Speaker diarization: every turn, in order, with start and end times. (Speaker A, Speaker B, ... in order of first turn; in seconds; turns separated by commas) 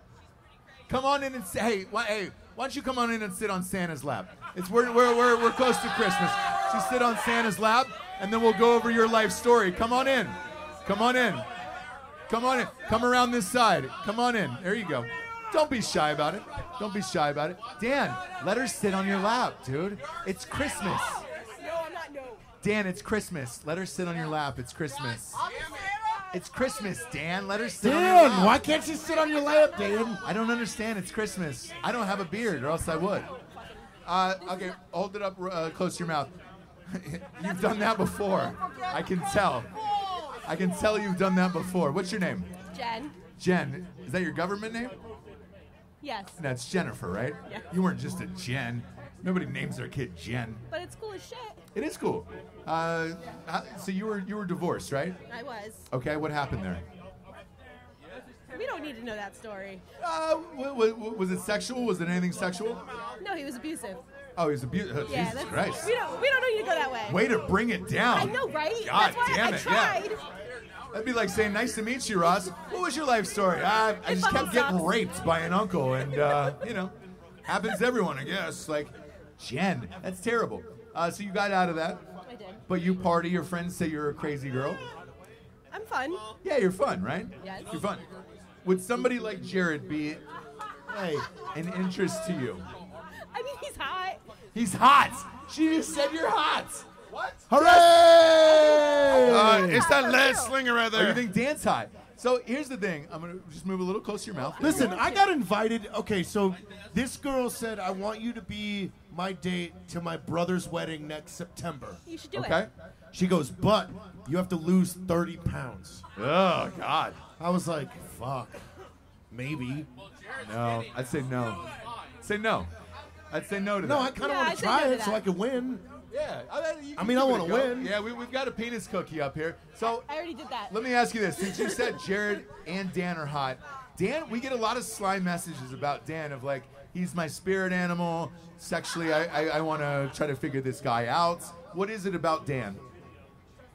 Speaker A: 0.9-11.4, Speaker A: 12.3-21.2, Speaker B: 21.4-22.4, Speaker A: 22.6-25.4, Speaker A: 26.3-28.6, Speaker C: 27.8-30.2, Speaker A: 30.2-33.3, Speaker A: 34.0-36.3, Speaker A: 36.9-39.7, Speaker A: 40.5-42.5, Speaker B: 42.7-43.2, Speaker A: 43.4-44.9, Speaker B: 46.0-46.4, Speaker A: 46.4-50.6, Speaker B: 50.7-51.6, Speaker A: 51.7-55.2, Speaker B: 55.3-55.9, Speaker A: 55.9-56.8, Speaker B: 58.5-59.8, Speaker A: 60.0-62.8, Speaker B: 63.2-64.0, Speaker A: 64.3-65.9, Speaker B: 65.1-67.3, Speaker A: 67.1-70.0, Speaker B: 68.1-70.2, Speaker A: 70.9-76.9, Speaker B: 74.0-74.9, Speaker A: 77.5-82.0, Speaker B: 82.2-82.6, Speaker A: 82.7-84.8, Speaker B: 85.7-86.3, Speaker A: 86.4-88.0, Speaker B: 87.4-87.8, Speaker A: 88.6-90.2, Speaker A: 90.9-92.6, Speaker B: 93.3-94.2, Speaker A: 94.5-97.9, Speaker C: 97.5-99.9, Speaker B: 98.7-100.6, Speaker D: 99.2-101.2, Speaker A: 100.9-104.9, Speaker B: 104.6-105.3, Speaker C: 104.6-112.0, Speaker B: 112.0-112.7, Speaker A: 112.3-112.7, Speaker C: 113.1-116.0, Speaker A: 116.2-117.2, Speaker C: 117.4-118.6, Speaker C: 119.3-119.9, Speaker A: 120.4-121.7, Speaker A: 122.2-122.7, Speaker A: 123.3-124.1, Speaker C: 123.8-125.9, Speaker B: 124.2-125.2, Speaker A: 126.1-130.1, Speaker C: 127.0-127.9, Speaker B: 129.8-131.9, Speaker A: 130.7-142.8